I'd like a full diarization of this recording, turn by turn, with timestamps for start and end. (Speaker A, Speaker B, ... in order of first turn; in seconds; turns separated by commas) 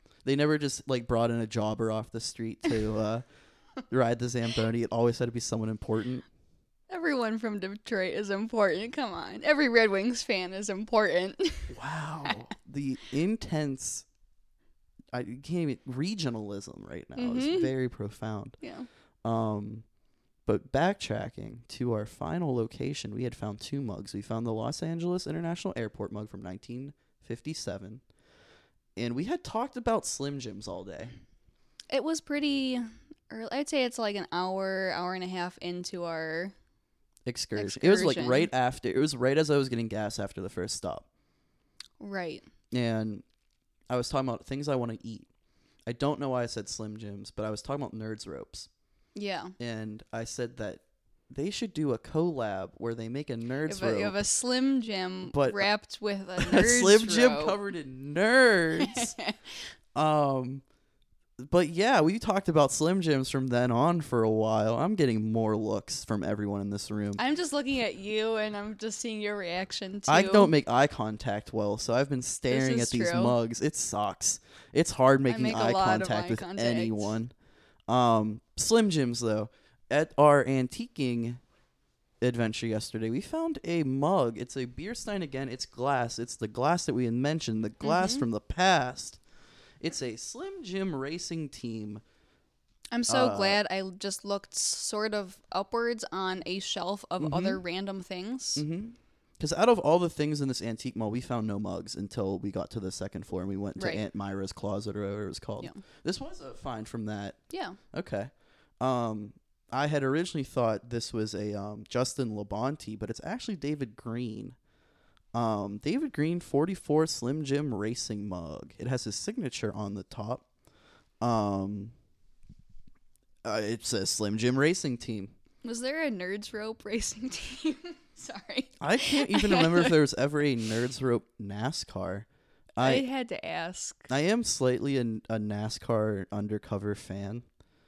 Speaker A: 0.2-3.2, Speaker A: 3.9-6.2, Speaker B: 6.9-11.7, Speaker A: 11.7-14.1, Speaker A: 15.1-18.6, Speaker B: 17.1-17.7, Speaker B: 18.6-18.9, Speaker A: 19.2-19.8, Speaker A: 20.4-28.0, Speaker A: 28.9-31.1, Speaker B: 31.9-36.5, Speaker A: 37.2-41.0, Speaker B: 37.5-38.5, Speaker B: 42.0-42.5, Speaker A: 42.7-43.2, Speaker A: 43.9-45.3, Speaker A: 45.9-48.7, Speaker B: 49.1-49.5, Speaker A: 49.6-54.2, Speaker B: 53.6-57.6, Speaker A: 55.3-55.7, Speaker A: 56.4-59.1, Speaker B: 58.8-59.4, Speaker A: 59.9-60.6, Speaker A: 61.4-67.2, Speaker B: 67.2-70.5, Speaker A: 70.1-77.3, Speaker B: 72.5-73.4, Speaker B: 75.3-77.1, Speaker A: 77.9-81.4, Speaker A: 82.2-89.2, Speaker B: 87.8-88.2, Speaker A: 89.8-92.0, Speaker B: 92.9-98.6, Speaker A: 93.1-93.6, Speaker A: 97.2-97.6, Speaker A: 98.5-107.4, Speaker B: 103.8-104.0, Speaker B: 107.5-107.8, Speaker A: 107.9-114.5, Speaker A: 115.3-120.4, Speaker A: 121.2-121.9, Speaker A: 123.4-125.3, Speaker B: 125.6-130.0, Speaker A: 128.8-133.1, Speaker B: 132.8-134.1, Speaker A: 134.1-137.4